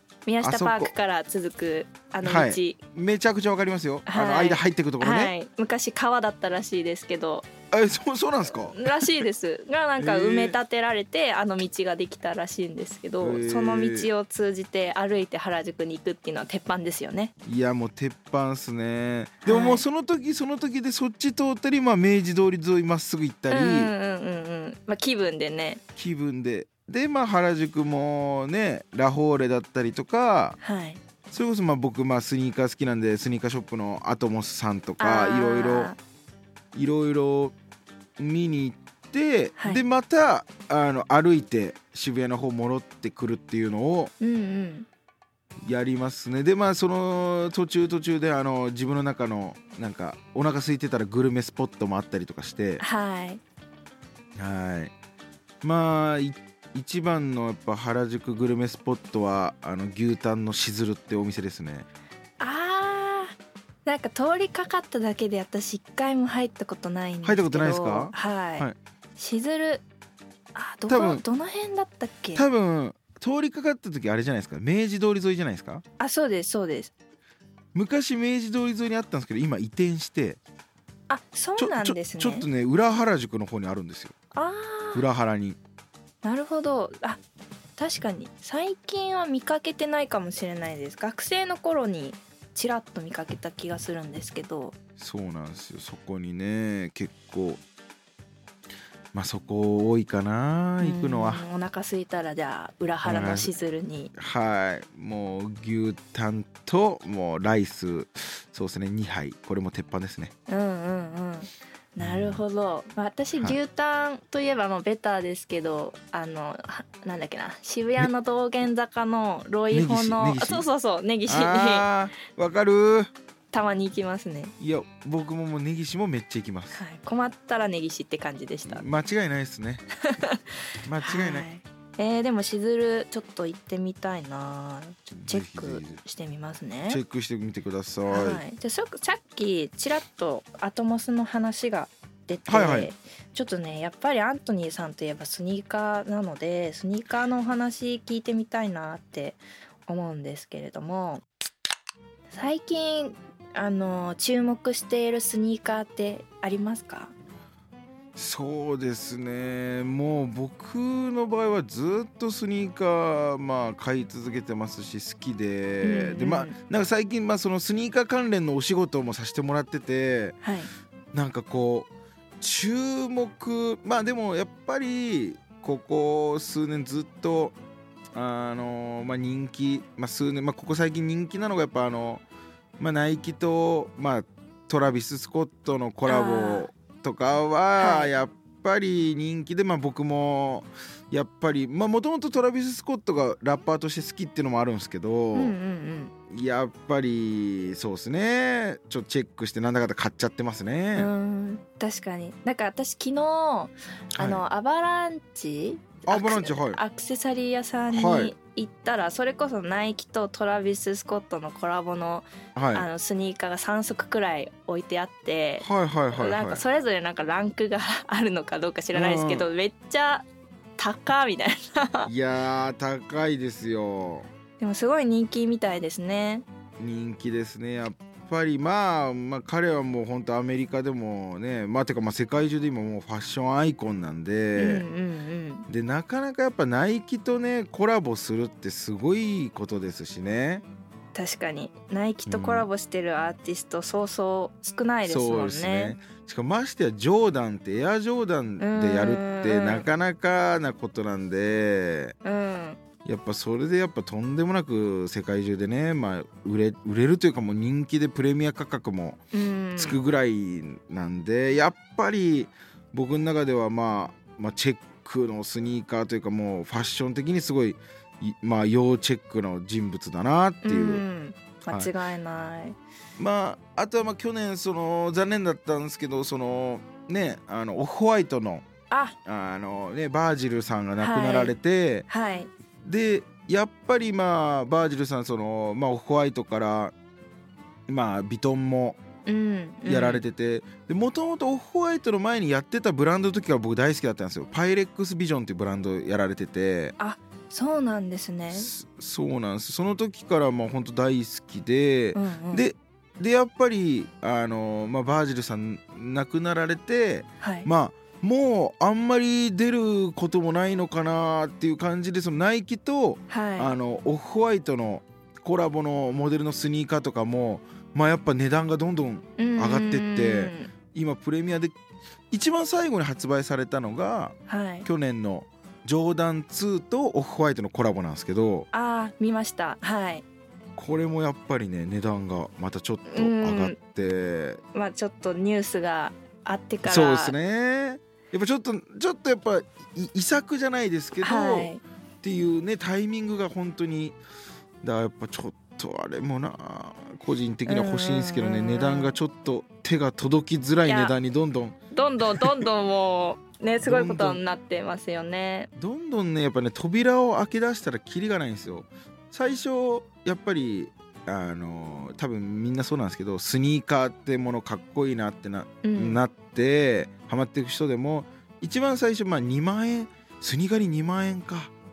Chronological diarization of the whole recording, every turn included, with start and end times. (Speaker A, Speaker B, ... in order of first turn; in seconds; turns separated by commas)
Speaker A: 0.2-2.8, Speaker B: 0.4-0.9, Speaker B: 2.2-5.3, Speaker A: 4.0-7.5, Speaker B: 7.7-9.2, Speaker A: 8.7-17.3, Speaker B: 10.0-10.6, Speaker B: 13.2-14.1, Speaker B: 17.4-23.9, Speaker A: 19.4-19.8, Speaker A: 23.5-25.8, Speaker B: 25.9-30.6, Speaker A: 30.6-31.0, Speaker B: 31.3-35.9, Speaker A: 35.0-36.0, Speaker B: 36.7-37.5, Speaker B: 38.2-44.1, Speaker A: 39.6-39.8, Speaker A: 44.2-44.9, Speaker B: 45.6-52.8, Speaker A: 52.8-53.4, Speaker B: 54.4-54.9, Speaker B: 55.6-61.9, Speaker A: 62.4-69.8, Speaker B: 67.2-68.8, Speaker A: 70.5-72.5, Speaker B: 70.9-71.2, Speaker B: 72.3-75.8, Speaker A: 76.0-76.9, Speaker B: 77.7-80.4, Speaker A: 81.1-82.5, Speaker B: 81.6-84.1, Speaker A: 84.3-85.0, Speaker B: 84.9-85.6, Speaker A: 86.2-87.2, Speaker A: 87.8-94.7, Speaker B: 95.0-97.6, Speaker B: 99.1-101.4, Speaker A: 100.8-104.1, Speaker B: 103.0-103.5, Speaker B: 104.1-110.3, Speaker A: 110.5-121.9, Speaker B: 112.0-112.4, Speaker B: 119.7-120.6, Speaker B: 121.3-123.1, Speaker A: 123.5-124.5, Speaker B: 124.6-126.8, Speaker A: 126.7-128.8, Speaker B: 128.7-129.8, Speaker A: 130.0-137.0, Speaker B: 130.8-131.5, Speaker B: 135.2-136.0, Speaker B: 136.9-138.4, Speaker A: 138.1-151.2, Speaker B: 142.5-142.9, Speaker A: 152.3-157.1, Speaker B: 158.2-170.4, Speaker A: 165.8-166.6, Speaker A: 170.4-170.7, Speaker B: 171.1-177.6, Speaker B: 178.1-182.2, Speaker B: 182.8-195.6, Speaker A: 186.1-186.7, Speaker A: 187.8-188.1, Speaker A: 195.3-196.1, Speaker B: 196.3-201.1, Speaker A: 200.9-220.2, Speaker B: 204.2-204.4, Speaker B: 206.1-206.8, Speaker B: 207.9-208.3, Speaker B: 212.5-212.9, Speaker B: 215.6-216.6, Speaker B: 218.9-219.5, Speaker A: 220.8-222.1, Speaker B: 222.1-224.3, Speaker A: 224.6-226.4, Speaker B: 226.8-234.8, Speaker A: 234.6-235.7, Speaker B: 235.7-240.6, Speaker A: 241.1-245.9, Speaker B: 242.3-242.7, Speaker B: 245.0-252.1, Speaker A: 248.6-249.8, Speaker A: 252.2-252.8, Speaker B: 253.0-259.2, Speaker A: 259.3-260.0, Speaker B: 259.8-271.0, Speaker A: 270.6-272.8, Speaker B: 273.2-278.6, Speaker A: 278.9-279.1, Speaker B: 279.2-282.1, Speaker A: 281.0-281.5, Speaker A: 282.1-282.5, Speaker B: 282.8-286.9, Speaker B: 287.9-289.0, Speaker A: 289.2-290.2, Speaker B: 289.9-296.9, Speaker A: 297.0-298.7, Speaker B: 298.5-321.8, Speaker A: 302.1-302.6, Speaker A: 307.4-307.7, Speaker A: 313.3-313.7, Speaker A: 319.4-320.7, Speaker B: 322.3-328.7, Speaker A: 324.5-324.9, Speaker A: 328.7-330.2, Speaker B: 330.8-334.6, Speaker A: 333.1-333.8, Speaker A: 334.7-337.3, Speaker B: 336.8-341.7, Speaker A: 341.2-341.8, Speaker B: 342.2-344.2, Speaker B: 344.8-351.8, Speaker A: 347.6-349.2, Speaker A: 350.9-351.1, Speaker A: 351.9-355.7, Speaker B: 352.3-352.6, Speaker B: 353.8-354.4, Speaker B: 355.8-371.7, Speaker A: 365.8-366.2